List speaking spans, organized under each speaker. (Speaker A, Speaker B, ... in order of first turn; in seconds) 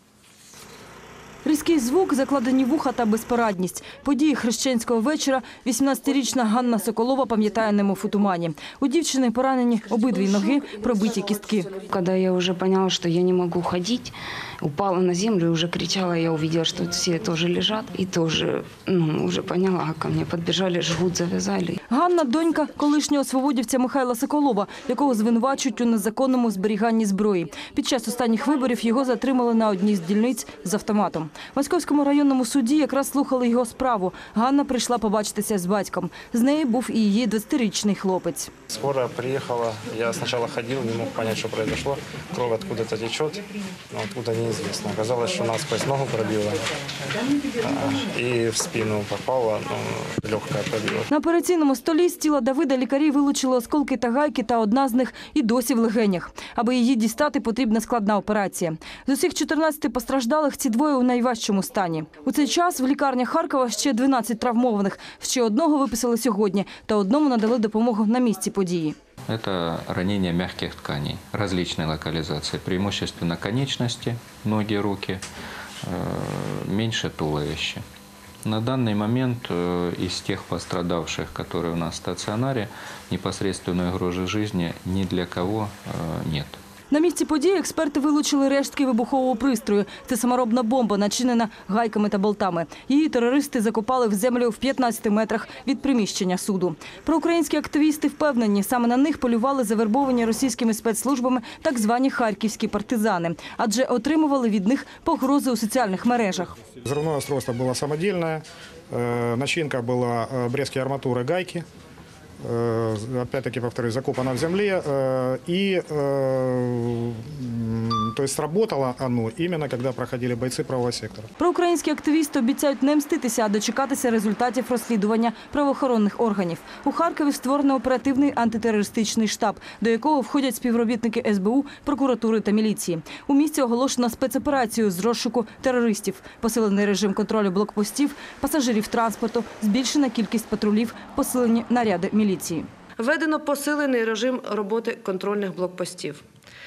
Speaker A: 1.4-11.7, 21.9-38.5, 51.1-68.9, 86.9-106.5, 121.4-142.7
Speaker B: 11.8-21.8
Speaker C: 38.7-46.7, 47.6-51.1
Speaker D: 69.3-75.2, 75.8-77.8, 78.4-86.6
Speaker E: 106.8-111.6, 112.4-121.3
Speaker F: 143.0-146.2